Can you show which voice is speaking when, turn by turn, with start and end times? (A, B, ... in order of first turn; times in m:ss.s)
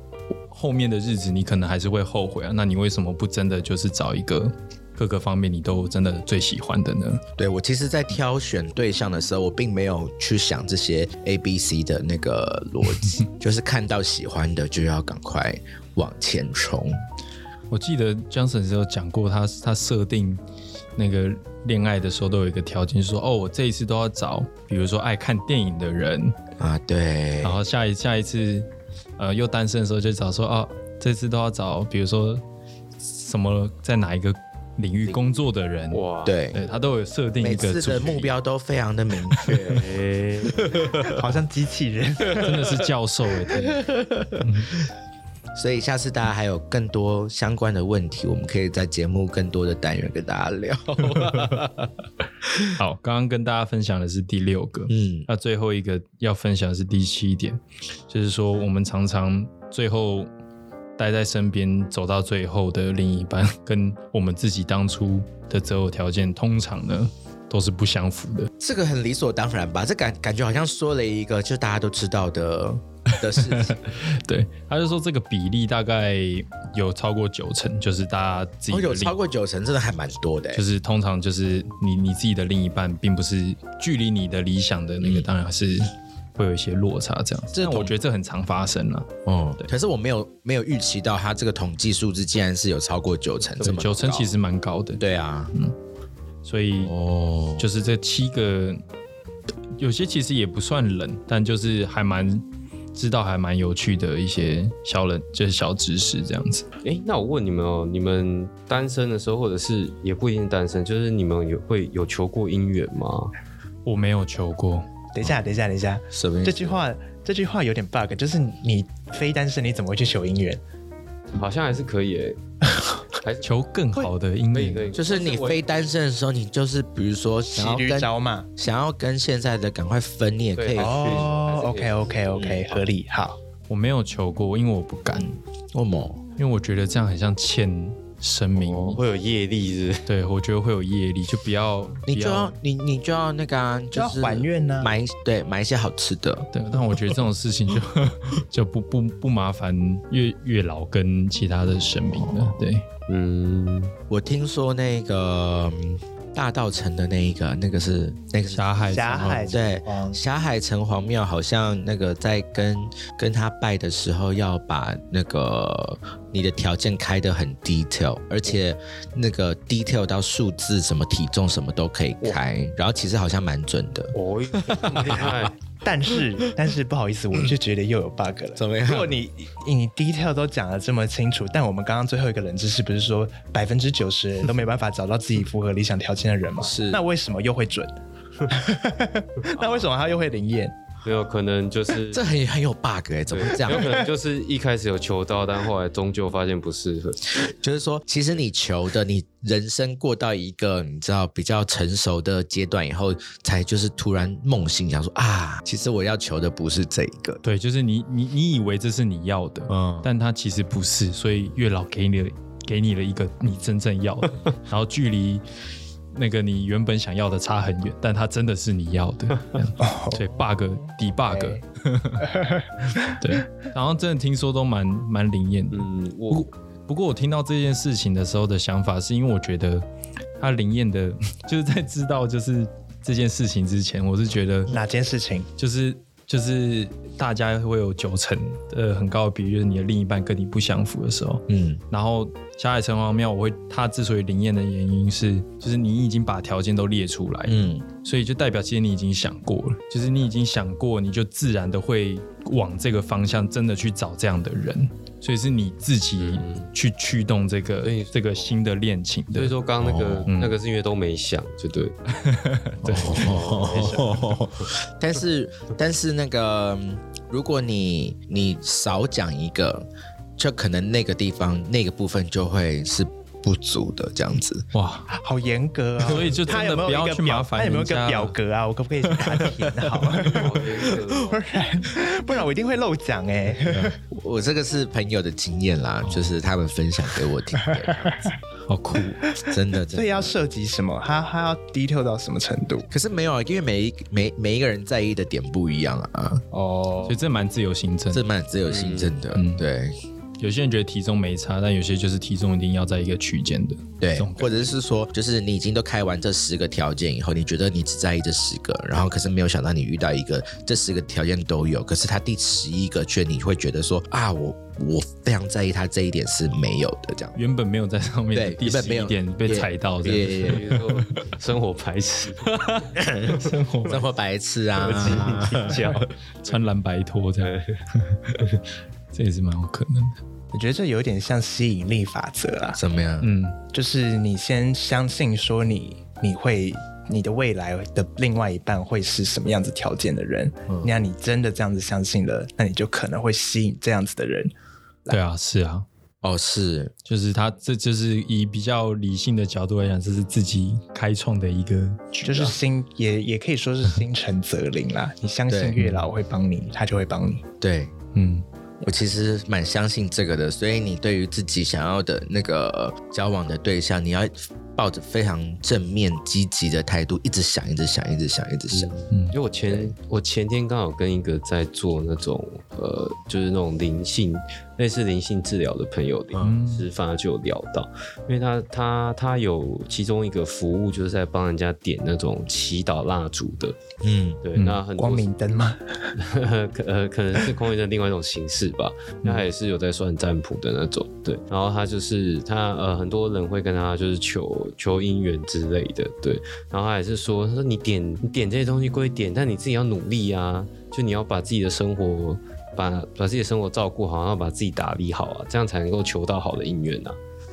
0:00.5-0:07.2 A
0:07.4-0:17.0 B
0:17.7-0:20.4 A
0:21.0-0:26.4 A
0:26.6-0:27.6 B
0:27.4-0:32.4 A
0:33.0-0:36.0 A
0:35.9-0:36.4 C
0:36.2-0:36.6 B
0:36.5-0:38.3 A
0:37.4-0:39.9 B
0:39.7-0:40.8 C
0:40.4-0:41.1 B
0:41.1-0:42.8 D
0:42.4-0:43.8 A
0:43.5-0:44.9 B
0:44.4-0:44.7 A
0:45.6-0:51.7 B
0:52.5-0:52.7 B
0:52.7-1:00.3 A
0:54.9-0:55.3 B
1:01.0-1:08.5 A
1:08.6-1:13.8 B
1:13.3-1:19.1 A
1:18.7-1:20.6 B
1:20.5-1:29.7 A
1:25.0-1:25.3 B
1:27.5-1:27.9 B
1:29.2-1:34.3 B
1:33.6-1:35.0 A
1:35.0-1:35.5 B
1:36.4-1:36.9 A
1:36.8-1:37.6 B
1:37.6-1:38.8 A
1:39.8-1:42.4 A
1:42.9-1:46.6 A
1:46.8-1:53.3 C
1:53.8-1:54.9 A
1:55.1-2:00.6 D
1:56.1-1:56.8 B
2:01.3-2:02.4 C
2:03.2-2:03.5 C
2:03.4-2:04.9 A
2:04.5-2:05.7 C
2:04.9-2:11.3 B
2:07.5-2:08.5 D
2:10.6-2:12.8 C
2:10.8-2:13.4 D
2:12.4-2:12.6 B
2:13.7-2:15.3 A
2:15.1-2:16.2 B
2:16.4-2:19.0 A
2:18.6-2:20.1 C
2:20.1-2:22.6 A
2:22.1-2:27.2 B
2:23.9-2:24.9 D
2:26.5-2:32.8 A
2:31.8-2:32.6 B
2:33.1-2:33.9 C
2:34.1-2:38.6 B
2:38.5-2:39.6 A
2:38.9-2:40.2 D
2:39.5-2:55.5 B
2:54.1-2:55.5 C
2:55.8-3:07.9 D
2:58.6-2:59.2 B
3:06.6-3:07.0 B
3:08.5-3:10.7 D
3:09.5-3:09.9 C
3:11.0-3:12.3 C
3:12.1-3:14.0 B
3:13.3-3:17.4 C
3:17.4-3:27.4 B
3:27.4-3:35.4 A
3:29.7-3:30.1 B
3:36.1-3:42.3 A
3:39.8-3:40.2 D
3:42.2-3:43.1 D
3:42.9-3:49.8 A
3:45.7-3:46.5 C
3:50.4-3:54.7 A
3:54.7-3:55.5 D
3:55.6-4:19.5 A
4:01.5-4:01.8 B
4:07.4-4:07.8 B
4:16.2-4:16.7 C
4:17.8-4:18.6 C
4:19.3-4:22.0 C
4:19.8-4:20.3 B
4:20.3-4:20.6 A
4:22.1-4:24.0 A
4:22.8-4:34.6 B
4:23.0-4:24.4 C
4:34.7-4:35.1 A
4:35.1-4:44.0 D
4:36.0-4:38.4 A
4:40.2-4:41.6 C
4:40.5-4:41.1 B
4:43.7-4:43.9 A
4:44.1-4:48.3 B
4:46.0-4:46.3 A
4:48.6-4:49.2 A
4:49.5-4:50.3 B
4:49.9-4:52.9 D
4:52.9-4:56.4 B
4:56.5-4:57.2 D
4:57.0-4:58.2 A
4:58.1-4:59.9 B
4:58.7-4:59.1 C
4:59.3-4:59.6 A
5:00.4-5:04.7 A
5:04.0-5:17.4 B
5:17.4-5:21.2 A
5:18.3-5:20.6 B
5:20.0-5:22.6 C
5:22.6-5:24.0 A
5:23.0-5:25.9 B
5:24.8-5:26.6 C
5:26.4-5:28.4 A
5:27.4-5:27.8 C
5:29.1-5:30.2 A
5:30.5-5:32.8 D
5:32.7-5:33.3 B
5:33.2-5:33.6 A
5:33.7-5:44.5 D
5:40.7-5:40.9 B
5:45.1-5:45.8 A
5:46.2-5:46.9 B
5:47.0-5:52.5 A
5:52.2-5:57.4 D
5:55.5-5:55.8 B
5:55.8-5:56.1 A
5:57.6-5:57.9 B
5:58.1-5:58.4 A
5:58.8-6:08.9 B
6:08.7-6:23.8 C
6:09.1-6:09.4 A
6:09.7-6:09.9 B
6:16.3-6:16.6 B
6:16.4-6:16.8 A
6:24.0-6:24.4 B
6:24.4-6:25.3 C
6:24.5-6:24.8 A
6:25.0-6:26.1 D
6:26.2-6:47.2 C